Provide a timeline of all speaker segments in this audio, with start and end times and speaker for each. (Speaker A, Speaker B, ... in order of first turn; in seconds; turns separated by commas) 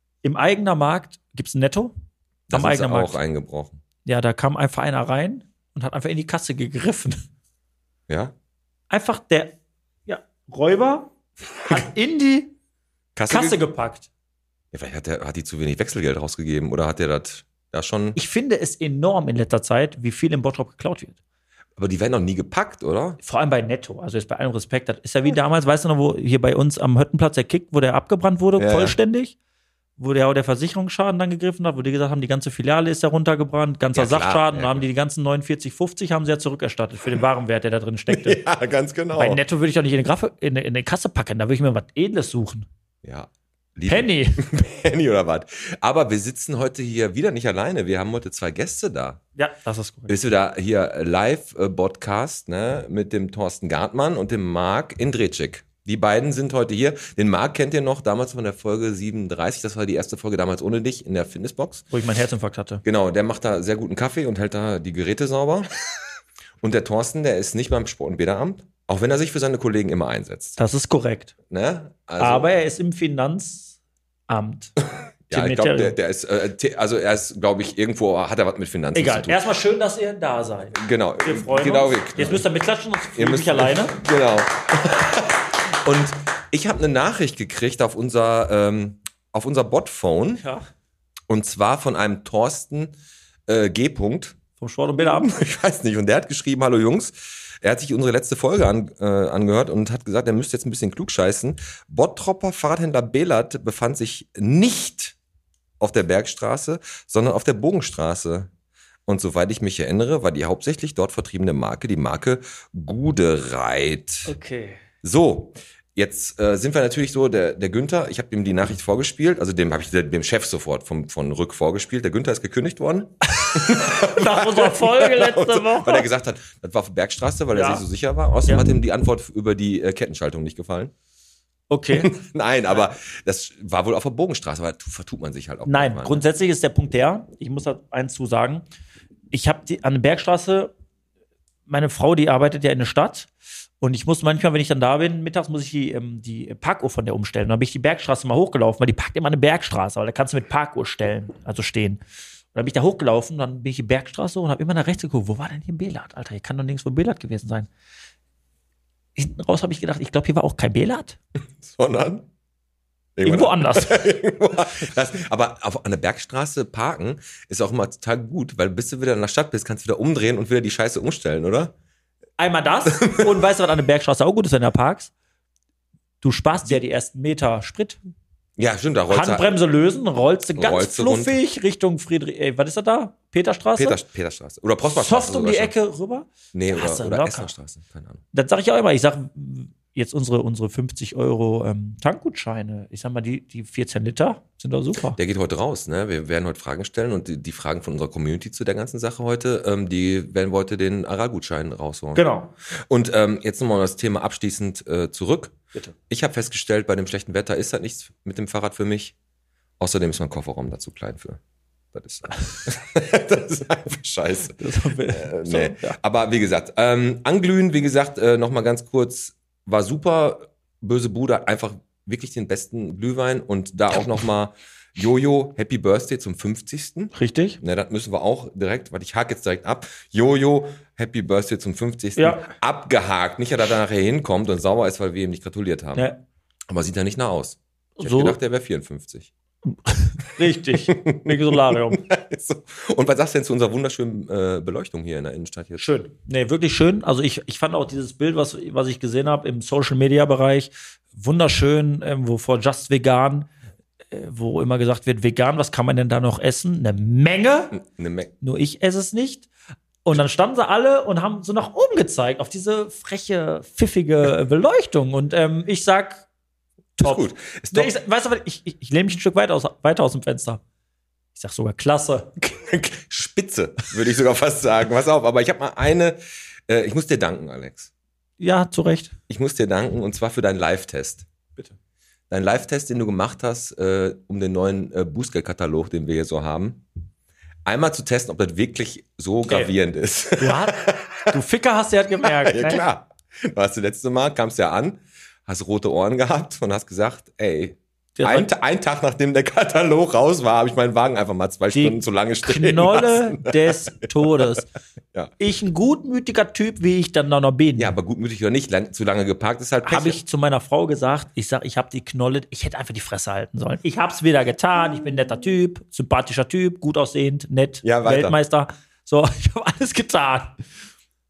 Speaker A: 0.2-1.9, Speaker B: 2.5-3.8, Speaker A: 2.5-3.2, Speaker A: 4.0-7.2, Speaker B: 8.1-8.3, Speaker A: 8.9-9.6, Speaker A: 10.1-11.1, Speaker A: 11.6-12.5, Speaker B: 13.2-13.6, Speaker A: 13.3-14.1, Speaker B: 14.7-18.2, Speaker A: 18.1-21.1, Speaker B: 21.8-23.2, Speaker A: 23.2-29.4, Speaker B: 28.6-28.9, Speaker A: 30.0-38.4, Speaker B: 33.9-34.9, Speaker B: 38.1-39.4, Speaker A: 39.1-42.7, Speaker B: 43.0-49.2, Speaker A: 43.9-44.4, Speaker A: 49.4-50.1, Speaker B: 50.1-61.9, Speaker A: 61.9-62.8, Speaker B: 62.8-65.7, Speaker B: 66.6-70.6, Speaker A: 70.6-71.3, Speaker B: 71.5-72.5, Speaker A: 72.2-73.8, Speaker A: 74.3-74.7, Speaker B: 75.3-79.4, Speaker A: 75.3-76.0, Speaker A: 78.9-84.0, Speaker B: 80.7-82.4, Speaker B: 83.1-90.4, Speaker A: 90.4-90.6, Speaker B: 91.3-92.9, Speaker B: 93.5-94.4, Speaker A: 94.6-95.3, Speaker B: 95.0-105.2, Speaker B: 105.8-108.5, Speaker B: 109.1-114.3, Speaker A: 114.2-114.8, Speaker B: 115.0-130.9, Speaker A: 123.4-126.1, Speaker A: 127.5-127.8, Speaker A: 131.7-132.1, Speaker B: 131.9-136.2, Speaker A: 135.7-138.6, Speaker A: 139.3-140.7, Speaker A: 141.7-143.3, Speaker A: 143.8-152.0, Speaker A: 152.5-157.7, Speaker A: 159.2-161.2, Speaker B: 161.6-162.3, Speaker B: 163.2-171.7, Speaker A: 163.2-164.1, Speaker A: 172.4-175.1, Speaker B: 172.9-173.4, Speaker A: 176.2-178.0, Speaker B: 178.6-179.6, Speaker A: 179.1-184.0, Speaker B: 180.6-181.4, Speaker B: 183.8-185.8, Speaker A: 184.9-187.5, Speaker B: 186.5-188.2, Speaker A: 188.3-195.2, Speaker B: 195.2-202.2, Speaker A: 202.1-202.5, Speaker B: 202.9-205.6, Speaker B: 206.1-209.1, Speaker B: 209.8-211.4, Speaker B: 211.9-236.1, Speaker A: 214.6-216.0, Speaker A: 227.1-227.6, Speaker A: 232.2-232.5, Speaker A: 235.9-236.2, Speaker B: 236.7-239.3, Speaker A: 238.0-238.4, Speaker A: 239.9-242.0, Speaker B: 240.4-245.9, Speaker A: 245.8-253.5, Speaker A: 254.1-257.8, Speaker B: 257.7-258.3, Speaker A: 258.4-259.5, Speaker A: 260.0-266.2, Speaker A: 267.0-270.6, Speaker B: 267.0-267.9, Speaker A: 271.4-272.5, Speaker B: 272.5-277.9, Speaker A: 278.4-279.1, Speaker B: 279.3-281.3, Speaker B: 282.3-286.8, Speaker B: 287.6-291.3, Speaker A: 289.5-289.7, Speaker A: 290.4-292.8, Speaker B: 292.2-304.6, Speaker A: 298.2-298.5, Speaker A: 301.7-304.7, Speaker A: 305.4-307.9, Speaker B: 307.8-310.2, Speaker A: 309.9-320.6, Speaker B: 317.8-318.4